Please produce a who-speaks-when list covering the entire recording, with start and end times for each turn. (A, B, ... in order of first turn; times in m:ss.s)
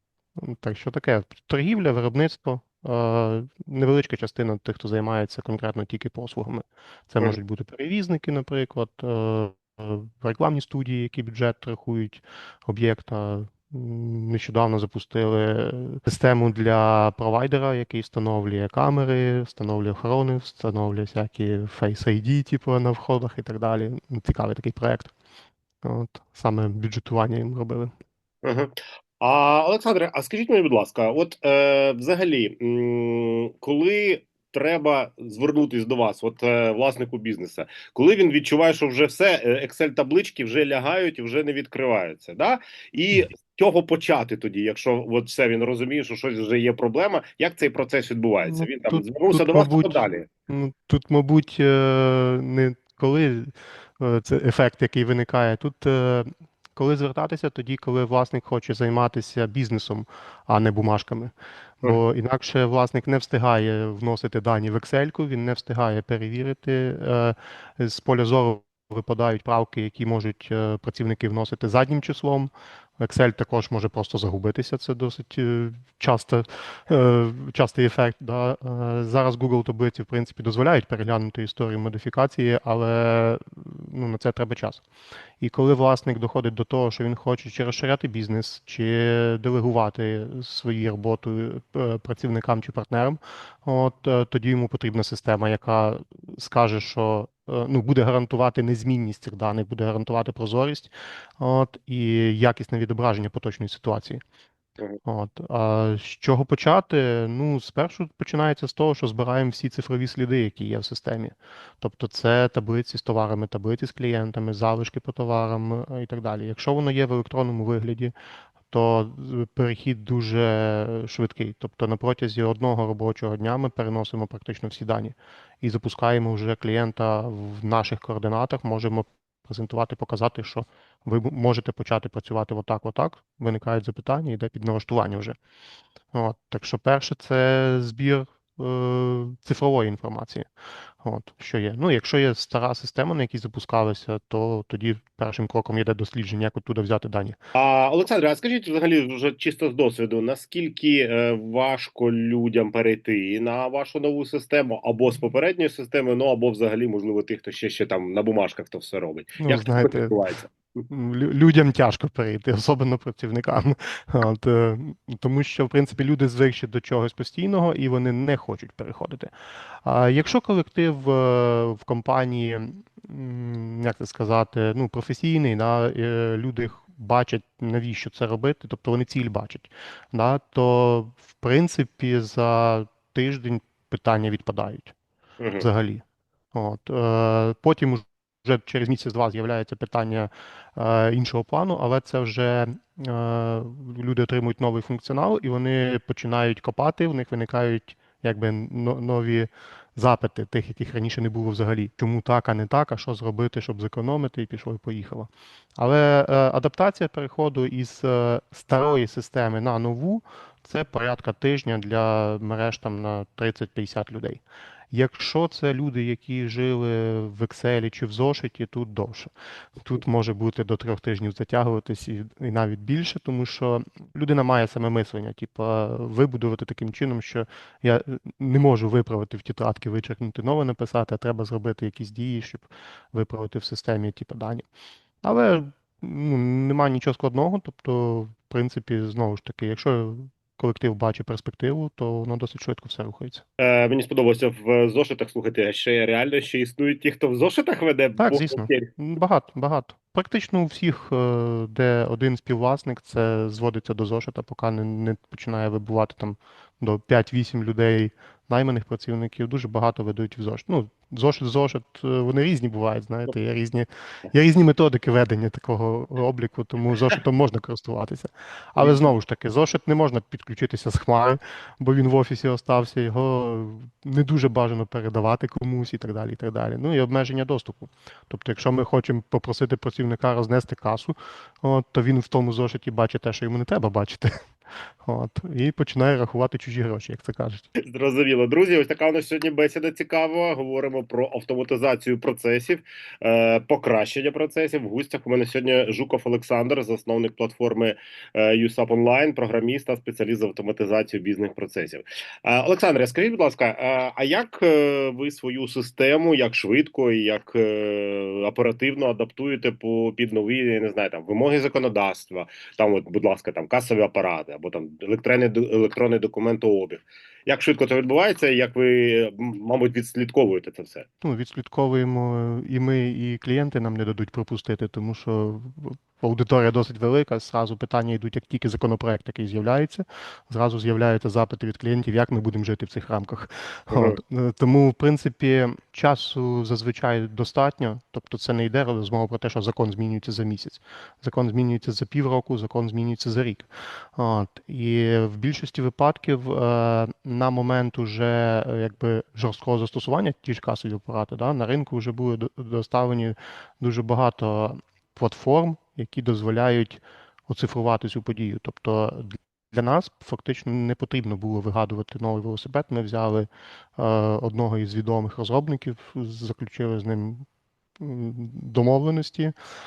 0:00.4-0:25.1 A
0:25.8-0:27.9 A
0:28.4-0:50.2 B
0:48.5-1:24.8 A
1:25.4-1:44.2 A
1:45.0-1:58.1 A
1:58.7-2:15.4 A
2:16.1-2:20.5 A
2:21.0-2:27.4 A
2:27.6-2:40.5 B
2:39.4-2:40.2 A
2:40.9-2:49.3 A
2:49.8-3:04.9 A
3:05.4-3:05.7 B
3:05.6-3:34.4 A
3:34.9-3:54.6 A
3:55.2-4:03.4 A
4:03.6-4:08.9 B
4:08.2-4:44.3 A
4:28.8-4:29.1 B
4:45.0-4:47.7 A
4:47.8-5:21.1 B
5:21.2-6:07.4 A
5:33.9-5:34.2 B
6:08.0-6:09.5 A